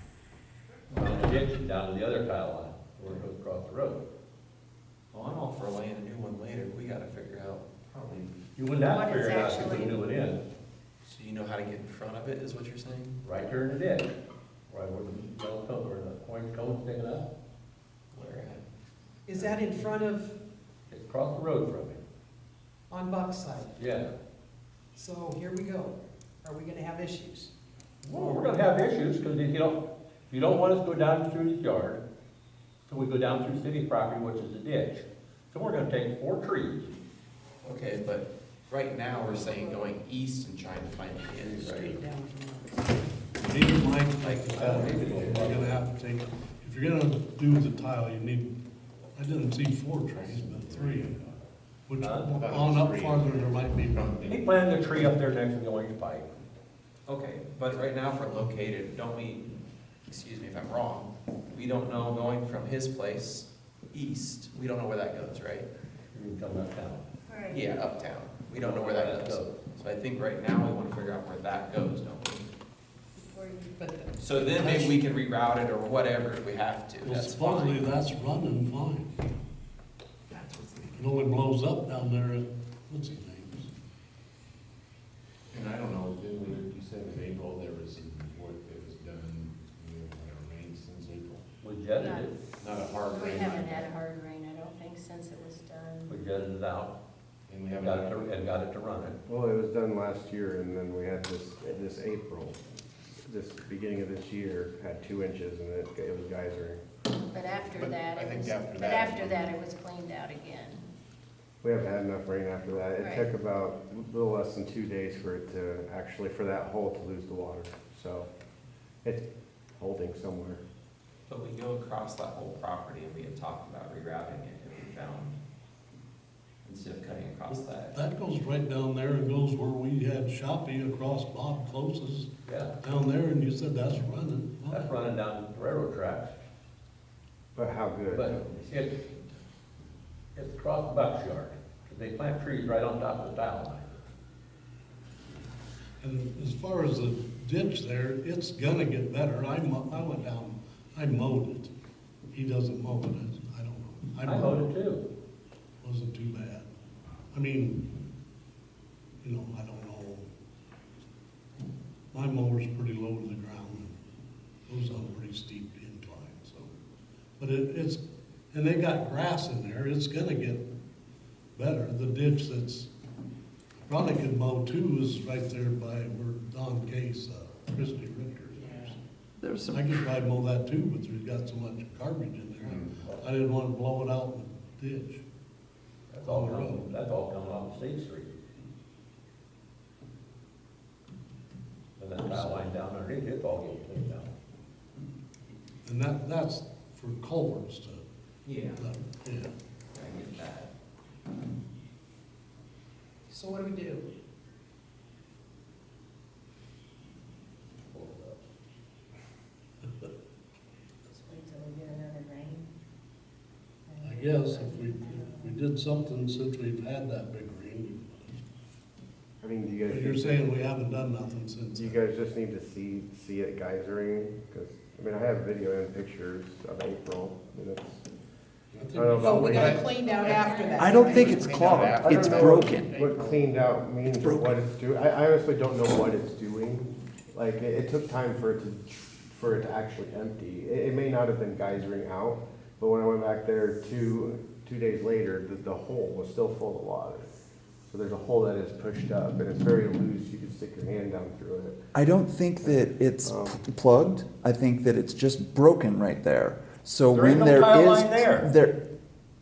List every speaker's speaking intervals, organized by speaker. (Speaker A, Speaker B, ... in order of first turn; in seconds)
Speaker A: 0.9-4.0, 8.6-10.4, 13.2-14.1, 14.7-17.3, 19.3-19.8, 20.9-22.0, 23.8-24.1, 28.0-32.0, 32.9-37.0, 41.6-42.0, 44.5-45.7, 52.0-52.3, 54.3-56.3, 66.1-67.0, 68.5-69.5, 91.6-92.3, 96.1-97.0, 97.7-99.2, 132.5-132.7, 134.7-136.3, 138.1-138.9, 140.3-143.9, 154.2-155.1, 183.0-183.2, 186.1-188.3, 192.0-194.3, 207.9-208.4, 257.1-258.5
Speaker B: 5.1-8.3, 11.0-13.2, 18.1-18.6, 37.6-42.0, 44.2-45.6, 57.1-59.5, 60.1-65.7, 67.5-72.5, 74.2-77.8, 80.3-81.1, 121.3-125.4, 126.6-128.0, 138.2-139.4, 198.4-198.9, 199.9-200.7, 229.6-233.5
Speaker C: 8.8-10.0, 67.3-67.7, 73.2-74.1, 92.0-92.3, 93.1-96.3, 107.3-110.8, 113.0-113.3, 211.1-212.7, 213.9-215.6, 229.3-231.3
Speaker D: 19.6-20.2, 23.0-23.5, 25.0-25.8, 26.5-27.3, 229.2-231.3
Speaker E: 43.4-48.5, 49.1-51.1, 51.9-54.1, 74.5-74.9, 77.0-79.2, 81.0-83.7, 127.9-134.9, 146.0-151.7, 152.3-154.6, 155.8-156.7, 157.3-157.8, 159.2-160.3, 162.1-164.0, 164.7-166.7, 167.4-170.7, 171.5-172.9, 173.8-179.0, 179.7-185.2, 186.2-186.8, 195.8-198.0, 198.8-199.5, 214.0-218.3, 219.9-221.9, 228.7-229.5
Speaker F: 50.2-51.3, 52.4-54.7, 85.5-91.4, 92.6-93.8, 97.5-98.3, 107.8-109.5, 182.6-182.9
Speaker G: 99.3-102.6, 103.2-106.8, 111.6-118.3, 119.8-120.6, 137.5-138.3, 219.4-220.4, 221.8-228.0, 228.9-229.8, 232.0-247.3, 247.9-251.8, 252.6-253.6
Speaker H: 179.4-179.9, 230.8-232.9, 234.2-234.5, 251.9-258.8